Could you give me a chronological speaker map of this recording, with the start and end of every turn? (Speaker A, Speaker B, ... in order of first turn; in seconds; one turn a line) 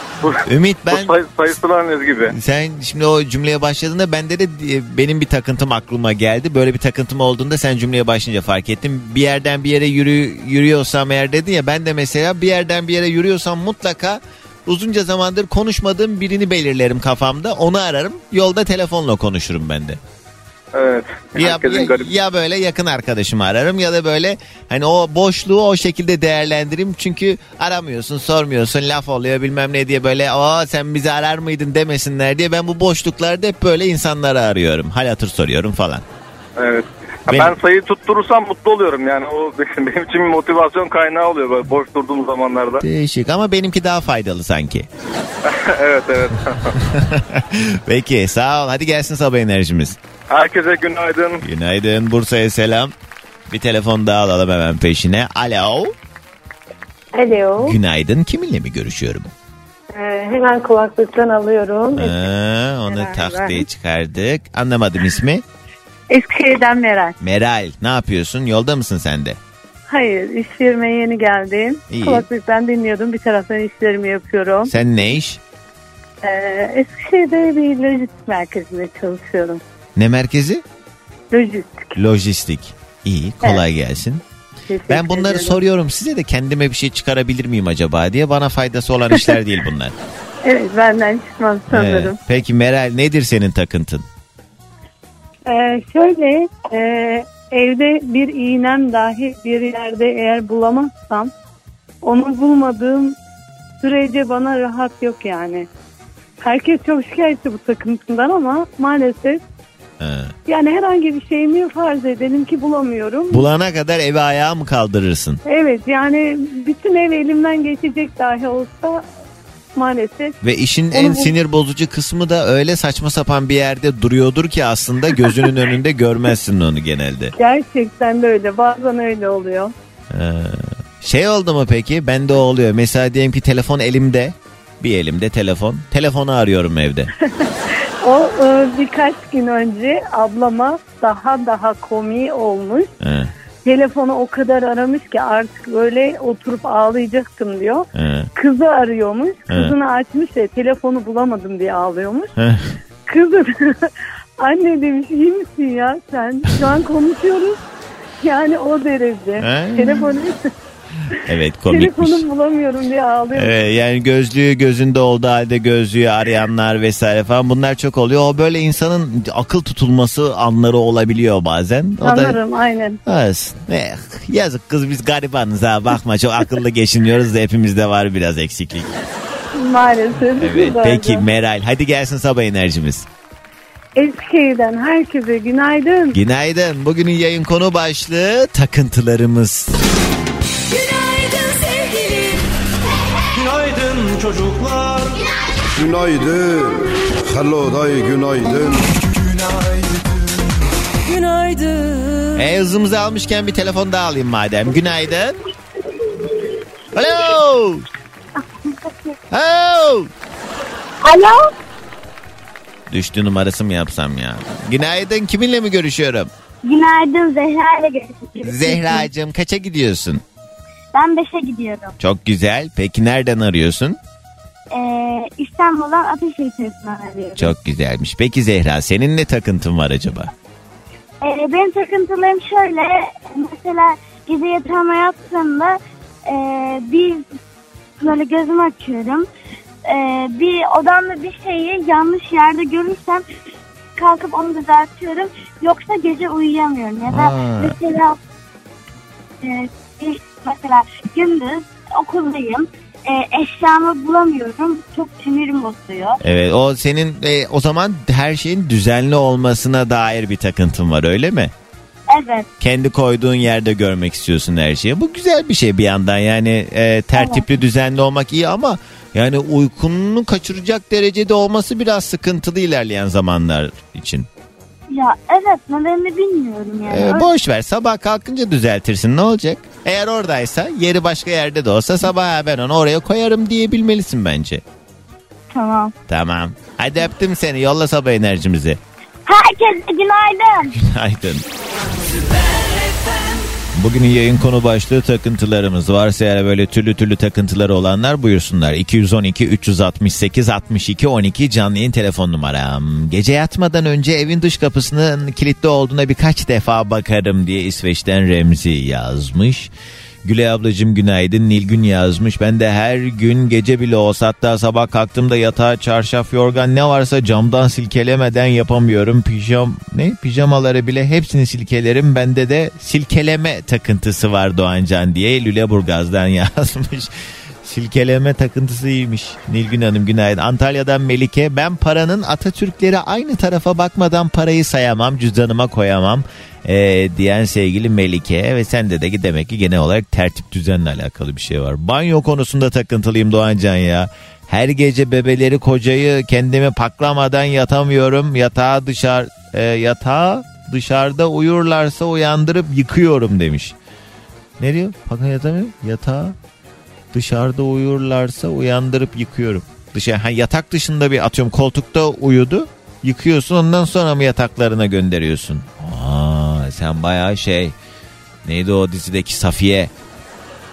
Speaker A: 0.2-2.4
Speaker B: 0.4-1.1
Speaker B: 2.3-20.0
Speaker A: 20.7-22.1
Speaker B: 21.4-36.0
Speaker A: 36.6-42.9
Speaker B: 37.3-37.5
Speaker B: 42.8-44.9
Speaker A: 45.5-46.8
Speaker B: 46.7-50.0
Speaker A: 50.3-51.4
Speaker B: 51.4-52.9
Speaker B: 53.5-55.9
Speaker C: 57.1-57.8
Speaker B: 57.6-59.3
Speaker C: 59.9-62.2
Speaker B: 61.9-65.4
Speaker C: 62.9-63.6
Speaker C: 66.1-67.1
Speaker B: 67.2-69.4
Speaker C: 69.9-74.7
Speaker B: 71.9-72.3
Speaker B: 74.7-75.4
Speaker C: 76.2-79.6
Speaker B: 80.0-80.6
Speaker C: 81.3-81.9
Speaker B: 82.0-84.2
Speaker C: 84.7-85.6
Speaker B: 84.9-90.0
Speaker C: 90.5-92.2
Speaker B: 91.7-94.1
Speaker C: 95.5-101.3
Speaker C: 102.0-103.2
Speaker C: 103.8-105.7
Speaker C: 106.5-109.4
Speaker B: 110.0-110.3
Speaker C: 110.5-113.5
Speaker B: 113.3-115.4
Speaker C: 115.5-119.0
Speaker C: 119.8-120.3
Speaker B: 120.4-127.3
Speaker C: 120.9-121.3
Speaker C: 127.3-129.7
Speaker B: 130.1-137.1
Speaker C: 138.0-142.9
Speaker B: 143.0-143.3
Speaker C: 143.7-152.3
Speaker B: 147.9-148.3
Speaker B: 152.4-152.7
Speaker C: 153.1-153.9
Speaker C: 154.4-157.6
Speaker C: 158.2-160.5
Speaker B: 159.4-160.2
Speaker B: 161.2-162.2
Speaker C: 161.7-163.6
Speaker B: 163.3-172.4
Speaker C: 172.0-173.0
Speaker B: 173.1-178.9
Speaker C: 179.5-181.3
Speaker B: 180.4-183.1
Speaker C: 184.0-186.2
Speaker B: 186.1-189.7
Speaker D: 193.3-195.3
Speaker E: 195.8-199.3
Speaker D: 199.2-200.5
Speaker D: 201.1-201.5
Speaker C: 201.3-202.1
Speaker B: 202.3-205.4
Speaker B: 206.9-207.9
Speaker B: 209.3-210.1
Speaker F: 211.0-211.4
Speaker B: 212.9-216.3
Speaker F: 216.6-219.1
Speaker B: 218.4-220.2
Speaker F: 220.9-221.9
Speaker B: 222.0-224.0
Speaker F: 224.7-227.5
Speaker B: 227.4-230.3
Speaker F: 231.2-237.3
Speaker F: 238.0-239.3
Speaker F: 239.8-243.2
Speaker F: 244.0-248.2
Speaker B: 247.1-247.8
Speaker F: 249.4-256.2
Speaker B: 256.2-261.5
Speaker F: 262.1-262.5
Speaker B: 262.6-274.3
Speaker F: 267.1-267.4
Speaker F: 274.9-277.3
Speaker B: 276.9-284.6
Speaker F: 285.5-285.9
Speaker B: 286.1-288.8
Speaker F: 289.3-290.8
Speaker B: 290.8-291.4
Speaker B: 293.8-309.7
Speaker B: 310.2-327.1
Speaker B: 327.6-353.8
Speaker B: 354.6-356.4
Speaker B: 357.1-367.8
Speaker B: 368.4-369.9